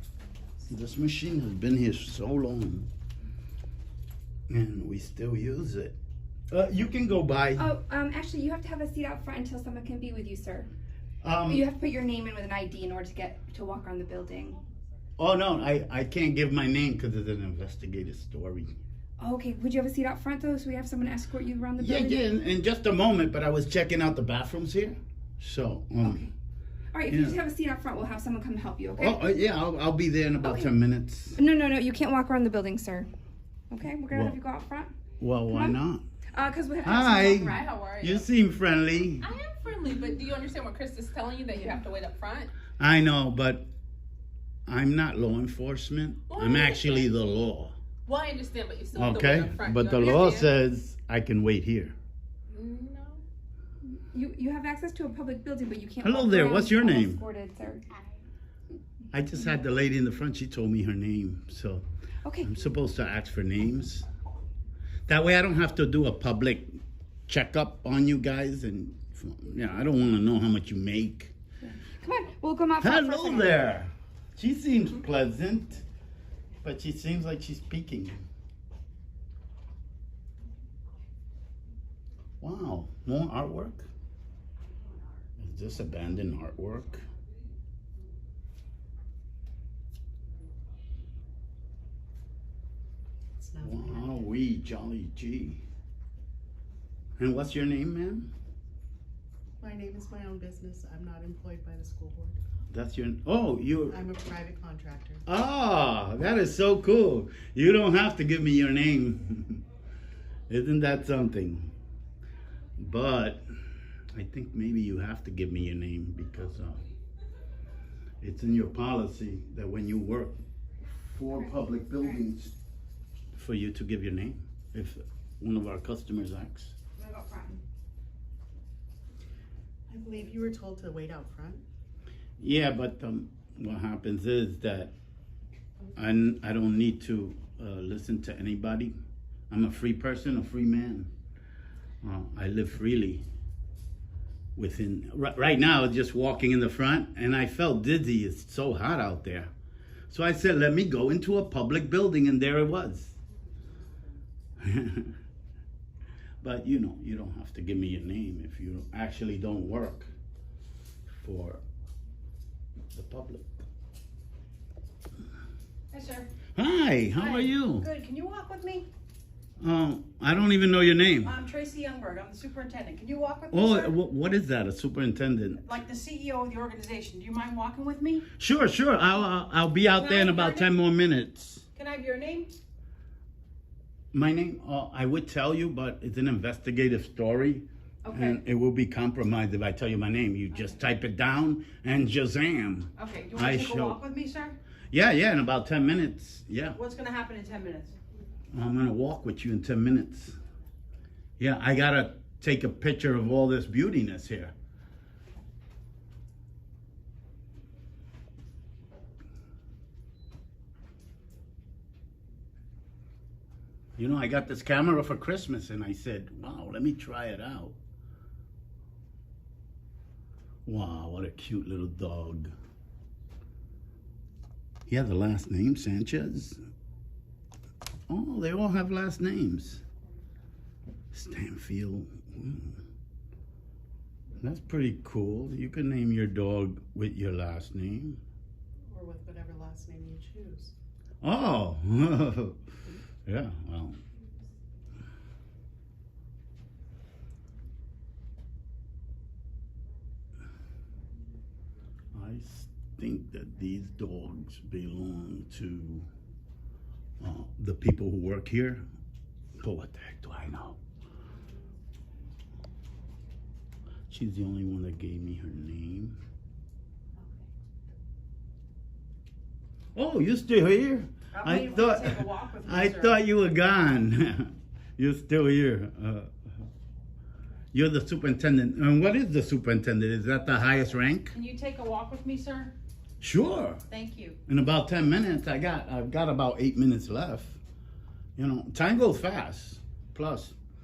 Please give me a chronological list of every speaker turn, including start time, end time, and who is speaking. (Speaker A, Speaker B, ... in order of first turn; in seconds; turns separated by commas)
Speaker A: 0.7-2.9, Speaker A: 4.5-6.0, Speaker A: 6.5-7.7, Speaker B: 7.6-10.7, Speaker A: 11.2-11.7, Speaker B: 11.4-14.6, Speaker A: 15.2-18.7, Speaker B: 19.2-22.3, Speaker A: 21.8-26.3, Speaker B: 26.9-29.2, Speaker A: 27.1-27.4, Speaker A: 29.0-31.4, Speaker B: 30.4-30.7, Speaker B: 31.4-33.1, Speaker B: 33.7-34.9, Speaker A: 34.1-34.4, Speaker A: 35.2-36.0, Speaker B: 35.5-35.8, Speaker B: 36.3-37.6, Speaker A: 36.8-39.3, Speaker C: 37.3-38.2, Speaker C: 39.2-42.5, Speaker A: 42.8-43.7, Speaker A: 44.7-47.8, Speaker C: 46.3-47.1, Speaker C: 48.0-50.5, Speaker A: 48.9-51.9, Speaker C: 52.5-53.2, Speaker B: 53.9-57.8, Speaker A: 56.0-57.2, Speaker A: 59.1-61.8, Speaker B: 62.2-62.5, Speaker A: 62.4-64.0, Speaker A: 65.1-71.3, Speaker B: 71.6-73.6, Speaker A: 72.8-75.8, Speaker A: 76.6-78.2, Speaker A: 82.4-83.9, Speaker A: 85.4-87.0, Speaker D: 93.4-94.2, Speaker A: 93.6-95.6, Speaker A: 97.2-98.3, Speaker D: 99.6-102.4, Speaker A: 102.7-104.0, Speaker D: 103.9-105.2, Speaker A: 105.3-109.6, Speaker A: 110.5-111.7, Speaker A: 112.8-113.4, Speaker A: 114.1-116.8, Speaker A: 118.2-120.4, Speaker A: 121.0-122.5, Speaker A: 123.3-126.7, Speaker B: 127.0-127.6, Speaker D: 129.9-131.6, Speaker A: 132.4-134.9, Speaker A: 135.9-138.9, Speaker A: 139.5-141.1, Speaker A: 142.0-143.2, Speaker A: 144.6-149.5, Speaker A: 150.1-153.2, Speaker A: 154.6-155.1, Speaker A: 156.4-160.1, Speaker A: 161.1-161.6, Speaker A: 162.9-163.5, Speaker E: 165.9-166.3, Speaker A: 166.5-167.9, Speaker E: 167.1-168.9, Speaker A: 169.6-171.3, Speaker E: 171.2-173.9, Speaker A: 173.5-175.6, Speaker E: 175.6-178.2, Speaker A: 178.4-181.7, Speaker E: 179.9-180.7, Speaker E: 181.7-182.5, Speaker A: 184.1-194.0, Speaker E: 188.0-188.4, Speaker E: 193.0-194.6, Speaker D: 193.5-193.9, Speaker A: 194.9-196.8, Speaker E: 196.7-197.9, Speaker A: 198.5-200.3, Speaker A: 201.4-204.5, Speaker A: 214.0-217.8, Speaker A: 220.7-222.5, Speaker A: 224.9-226.6, Speaker A: 228.1-229.8, Speaker A: 231.1-232.8, Speaker A: 234.4-238.2, Speaker D: 238.9-240.7, Speaker A: 241.2-242.6, Speaker A: 243.2-244.0, Speaker A: 252.1-256.1, Speaker A: 257.2-258.8, Speaker A: 259.6-260.8, Speaker A: 264.1-266.2, Speaker A: 269.9-276.3, Speaker E: 271.3-273.2, Speaker A: 277.7-281.3, Speaker E: 281.3-282.7, Speaker A: 283.2-283.8, Speaker E: 283.9-284.4, Speaker A: 284.5-287.6, Speaker A: 288.4-290.5